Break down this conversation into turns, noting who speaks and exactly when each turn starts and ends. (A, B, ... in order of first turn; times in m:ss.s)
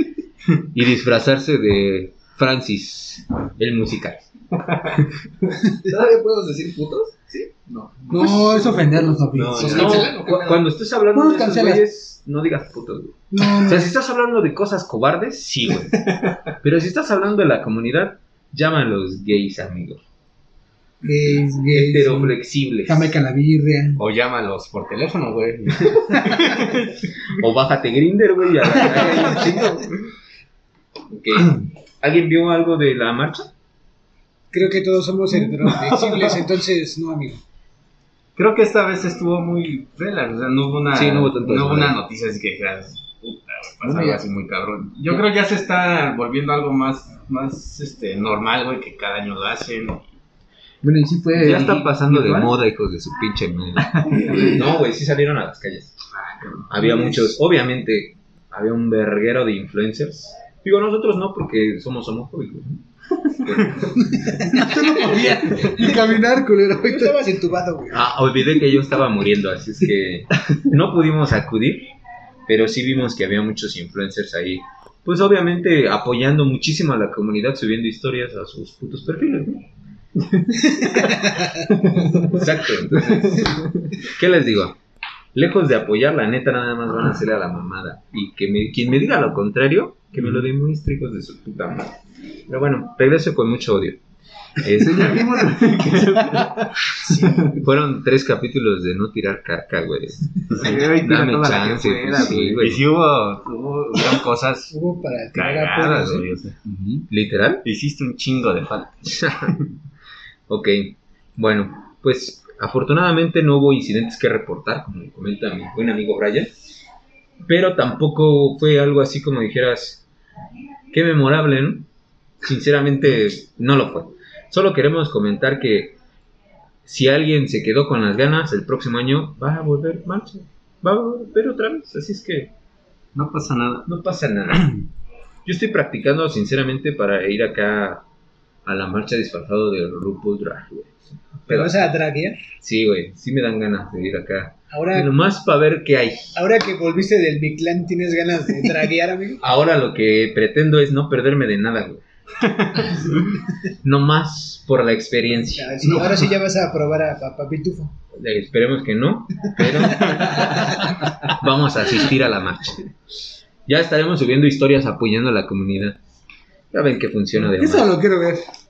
0:00.7-0:04.3 A
0:05.8-0:10.7 B
0:08.1-0:09.8 C
0:09.3-0:10.1 D
0:09.6-0:16.0 A
0:11.1-0:11.8 C
0:13.3-0:14.0 C
0:16.6-0:20.0 A
0:21.0-0:24.0 C
0:21.7-0:23.1 A
0:24.0-0:27.1 D
0:27.3-0:30.0 A
0:31.1-0:33.5 A
0:34.5-0:37.4 E
0:38.4-0:50.1 D
0:40.9-0:42.0 A
0:43.8-0:44.2 B
0:50.8-0:52.6 B
0:51.4-0:56.0 A
0:53.8-0:54.7 B
0:56.3-0:57.2 B
0:56.7-1:02.8 A
1:03.4-1:05.7 A
1:04.3-1:07.2 C
1:06.8-1:08.1 E
1:07.9-1:11.9 A
1:12.5-1:19.6 A
1:21.8-1:23.9 B
1:22.2-1:24.8 A
1:25.3-1:31.9 A
1:30.2-1:30.4 D
1:32.5-1:34.0 A
1:34.6-1:35.5 A
1:34.7-1:36.7 B
1:35.9-1:36.6 D
1:37.0-1:37.5 E
1:37.5-1:42.8 A
1:40.5-1:40.8 D
1:40.5-1:42.6 B
1:42.2-1:44.7 D
1:44.7-1:46.3 E
1:45.3-1:46.6 D
1:46.6-1:47.1 B
1:47.1-1:47.6 A
1:47.6-1:49.6 D
1:49.1-1:49.6 A
1:50.5-1:56.5 A
1:57.4-2:00.0 A
2:00.9-2:01.9 A
2:02.4-2:06.0 A
2:06.8-2:12.5 A
2:13.2-2:13.9 D
2:13.9-2:14.8 A
2:15.4-2:18.0 A
2:18.6-2:21.9 A
2:21.5-2:22.4 E
2:22.6-2:26.3 A
2:24.7-2:25.1 E
2:26.4-2:29.4 E
2:29.4-2:32.0 A
2:32.6-2:33.0 D
2:33.8-2:36.3 A
2:35.6-2:38.0 E
2:38.1-2:42.9 A
2:39.6-2:40.5 E
2:43.7-2:46.0 A
2:46.7-2:47.9 A
2:47.4-2:48.4 C